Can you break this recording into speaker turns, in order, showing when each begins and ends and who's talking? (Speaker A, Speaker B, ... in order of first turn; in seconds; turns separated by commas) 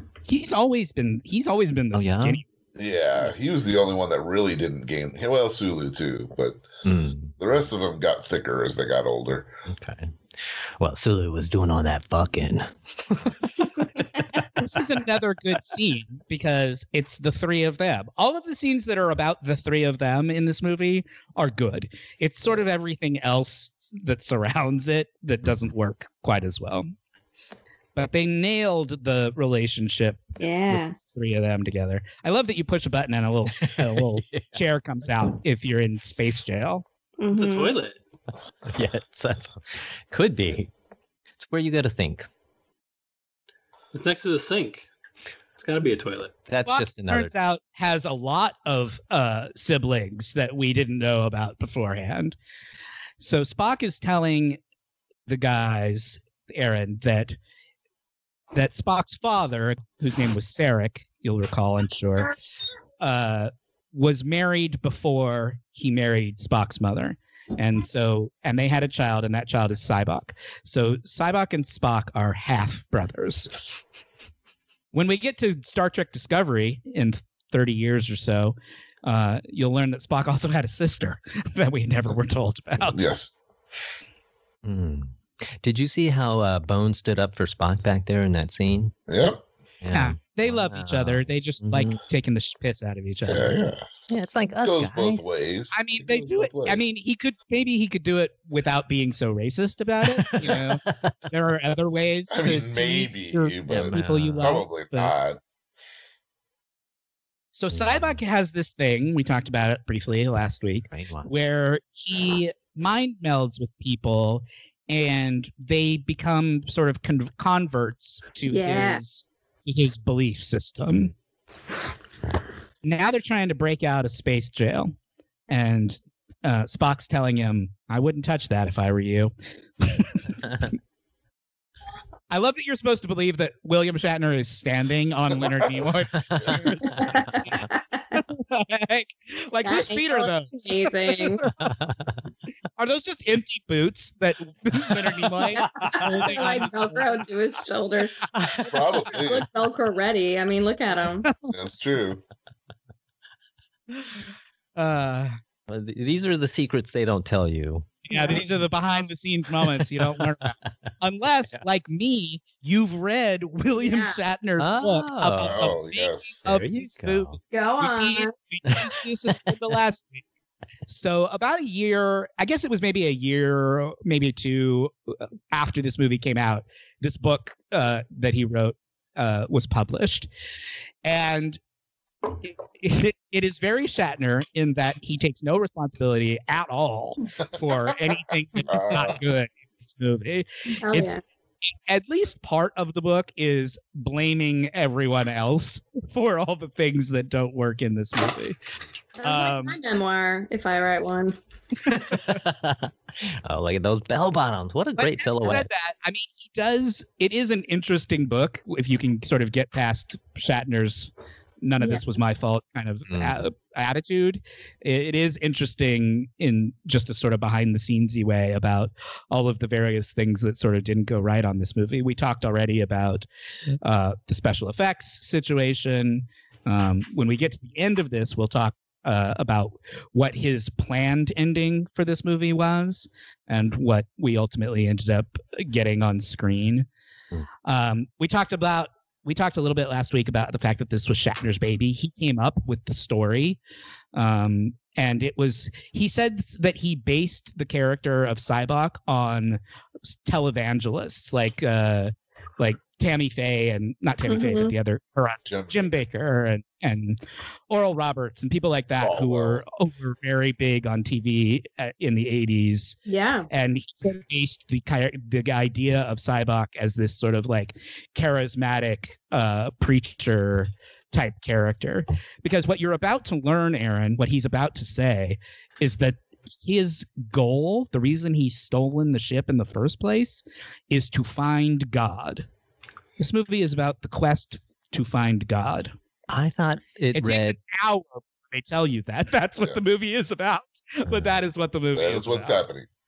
Speaker A: 0.3-2.4, Speaker B: 1.9-2.4, Speaker C: 2.8-6.7, Speaker B: 6.8-7.3, Speaker C: 7.4-9.5, Speaker B: 9.7-10.1, Speaker B: 10.8-14.5, Speaker A: 14.6-26.9, Speaker A: 28.0-36.9, Speaker D: 30.4-31.0, Speaker B: 33.6-34.5, Speaker D: 37.2-37.8, Speaker E: 37.3-38.0, Speaker B: 38.7-40.7, Speaker B: 41.4-42.3, Speaker E: 43.9-44.9, Speaker E: 45.6-46.3, Speaker B: 46.5-47.3, Speaker A: 46.7-52.4, Speaker A: 53.2-54.6, Speaker A: 55.3-57.4, Speaker A: 58.5-62.3, Speaker A: 63.0-73.6, Speaker A: 74.9-83.1, Speaker C: 82.9-83.4, Speaker B: 84.6-89.0, Speaker C: 89.1-89.4, Speaker B: 89.8-92.0, Speaker A: 89.9-93.6, Speaker C: 93.2-93.9, Speaker B: 94.1-95.3, Speaker C: 94.6-96.8, Speaker A: 95.7-105.2, Speaker B: 100.2-101.1, Speaker C: 102.3-105.4, Speaker B: 103.7-104.5, Speaker A: 107.5-121.1, Speaker B: 107.7-108.1, Speaker B: 110.9-111.3, Speaker D: 118.5-119.0, Speaker A: 122.8-124.9, Speaker A: 125.5-130.4, Speaker A: 132.3-141.7, Speaker C: 135.3-136.9, Speaker B: 136.4-137.4, Speaker D: 136.9-138.0, Speaker D: 139.7-141.4, Speaker B: 141.6-142.2, Speaker A: 142.8-147.0, Speaker D: 145.6-148.4, Speaker C: 148.6-149.5, Speaker D: 149.1-151.3, Speaker A: 151.2-151.5, Speaker C: 151.5-152.2, Speaker A: 153.9-154.2, Speaker A: 154.8-155.4, Speaker B: 155.7-157.9, Speaker A: 158.1-170.2, Speaker D: 158.1-158.4, Speaker B: 159.8-160.2, Speaker D: 163.8-164.2, Speaker B: 164.6-165.8, Speaker C: 165.4-166.5, Speaker B: 166.4-167.4, Speaker D: 167.5-168.3, Speaker A: 170.9-180.3, Speaker A: 181.0-181.6, Speaker A: 182.4-191.2, Speaker C: 188.7-189.2, Speaker D: 190.8-191.2, Speaker A: 191.9-198.6, Speaker D: 199.2-201.4, Speaker A: 199.2-199.8, Speaker B: 202.1-205.7, Speaker A: 205.0-223.3, Speaker B: 213.1-213.4, Speaker A: 223.8-236.9, Speaker A: 237.7-243.6, Speaker A: 244.1-263.0, Speaker D: 254.3-254.7, Speaker C: 255.5-256.0, Speaker C: 259.0-259.6, Speaker D: 263.1-263.5, Speaker A: 263.5-282.5, Speaker A: 283.2-285.9, Speaker B: 286.3-287.6, Speaker A: 287.1-292.6, Speaker B: 291.1-291.4, Speaker C: 291.9-292.9